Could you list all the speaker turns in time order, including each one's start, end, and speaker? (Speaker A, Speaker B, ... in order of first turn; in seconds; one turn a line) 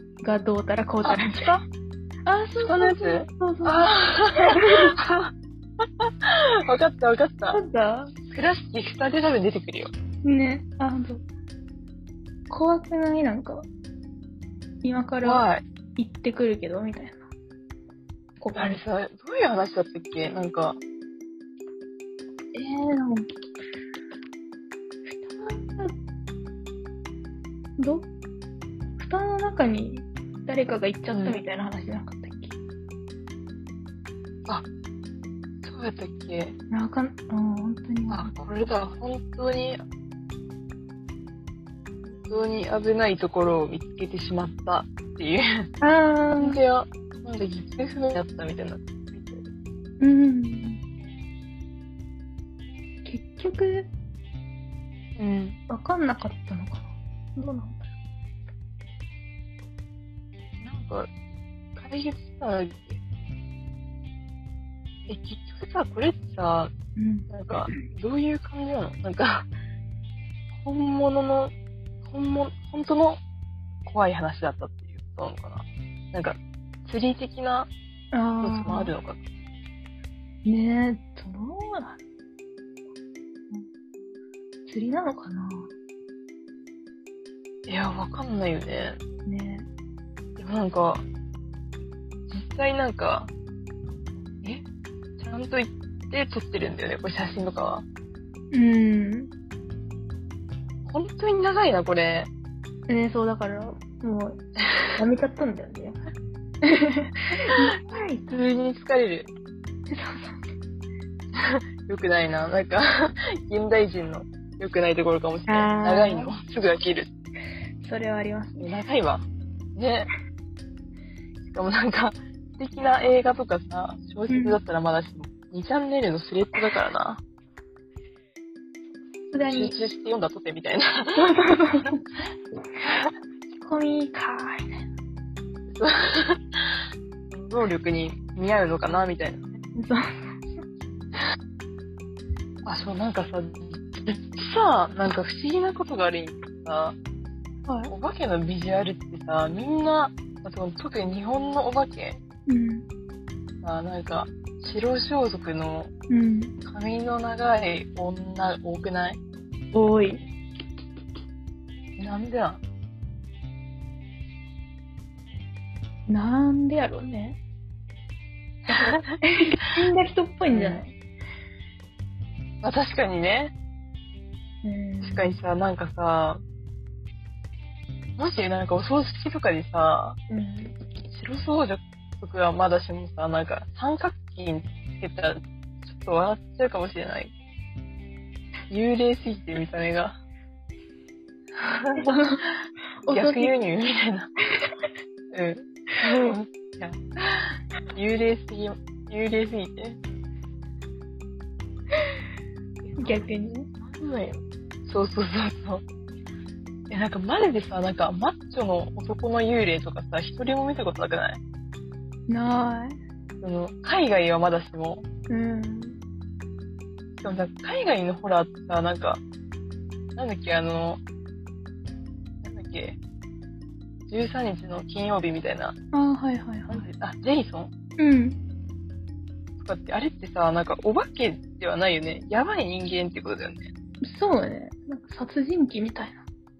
Speaker A: 0.2-1.6
Speaker B: 1.0-1.5
Speaker A: 2.3-4.9
Speaker B: 2.6-5.3
Speaker B: 6.3-7.6
Speaker A: 7.5-8.1
Speaker B: 8.3-9.9
Speaker A: 10.2-11.2
Speaker A: 12.5-13.7
Speaker A: 14.8-17.3
Speaker B: 15.2-15.6
Speaker A: 18.4-18.8
Speaker B: 18.5-20.8
Speaker A: 22.5-23.3
Speaker A: 25.1-25.9
Speaker A: 27.8-28.1
Speaker A: 29.0-32.6
Speaker B: 31.1-31.4
Speaker B: 35.6-36.6
Speaker A: 36.7-38.3
Speaker B: 38.1-39.8
Speaker B: 42.3-45.7
Speaker A: 45.8-46.6
Speaker B: 46.4-49.5
Speaker A: 50.0-50.8
Speaker A: 53.0-53.9
Speaker B: 55.2-55.6
Speaker A: 55.7-57.9
Speaker B: 60.6-61.2
Speaker B: 61.8-63.0
Speaker B: 65.1-66.7
Speaker A: 67.0-67.8
Speaker B: 67.3-69.5
Speaker B: 70.6-71.5
Speaker B: 72.0-73.2
Speaker B: 73.8-77.7
Speaker A: 78.1-78.9
Speaker B: 78.4-79.2
Speaker A: 80.5-82.0
Speaker A: 84.7-85.7
Speaker B: 87.7-89.0
Speaker A: 89.3-89.7
Speaker B: 90.4-91.0
Speaker B: 92.3-93.3
Speaker B: 95.2-97.8
Speaker A: 98.5-99.3
Speaker B: 100.9-102.3
Speaker A: 102.9-106.0
Speaker A: 106.6-108.2
Speaker B: 108.3-109.3
Speaker A: 109.9-110.5
Speaker B: 111.4-117.1
Speaker A: 115.5-116.3
Speaker A: 117.8-118.7
Speaker B: 118.6-119.2
Speaker B: 119.8-120.1
Speaker B: 121.5-127.2
Speaker A: 124.3-124.6
Speaker A: 129.3-129.8
Speaker B: 129.5-131.3
Speaker A: 131.2-132.0
Speaker A: 133.5-134.9
Speaker B: 135.8-136.6
Speaker B: 137.3-139.6
Speaker A: 139.8-140.4
Speaker B: 142.7-147.0
Speaker A: 147.7-147.9
Speaker B: 147.9-152.2
Speaker A: 152.5-152.9
Speaker B: 153.6-155.9
Speaker A: 156.1-156.5
Speaker B: 156.7-159.2
Speaker A: 159.7-160.2
Speaker B: 162.0-162.6
Speaker A: 166.1-167.4
Speaker B: 168.7-169.2
Speaker A: 168.7-170.9
Speaker B: 170.5-170.8
Speaker B: 172.6-173.5
Speaker A: 174.6-175.3
Speaker B: 175.0-176.4
Speaker B: 178.2-180.2
Speaker A: 180.3-180.7
Speaker B: 181.1-187.3
Speaker B: 188.7-190.2
Speaker B: 191.6-192.1
Speaker A: 192.0-192.4
Speaker A: 193.1-193.5
Speaker B: 193.1-194.3
Speaker B: 195.3-200.0
Speaker B: 202.8-203.3
Speaker A: 203.0-203.7
Speaker B: 203.8-205.8
Speaker B: 206.9-211.4
Speaker A: 212.3-213.0
Speaker B: 213.4-215.1
Speaker A: 215.3-216.0
Speaker B: 217.2-219.2
Speaker B: 220.2-221.0
Speaker B: 222.4-223.0
Speaker B: 224.1-225.8
Speaker A: 225.9-226.9
Speaker B: 226.7-227.7
Speaker A: 228.0-228.4
Speaker B: 229.6-233.7
Speaker A: 234.0-236.2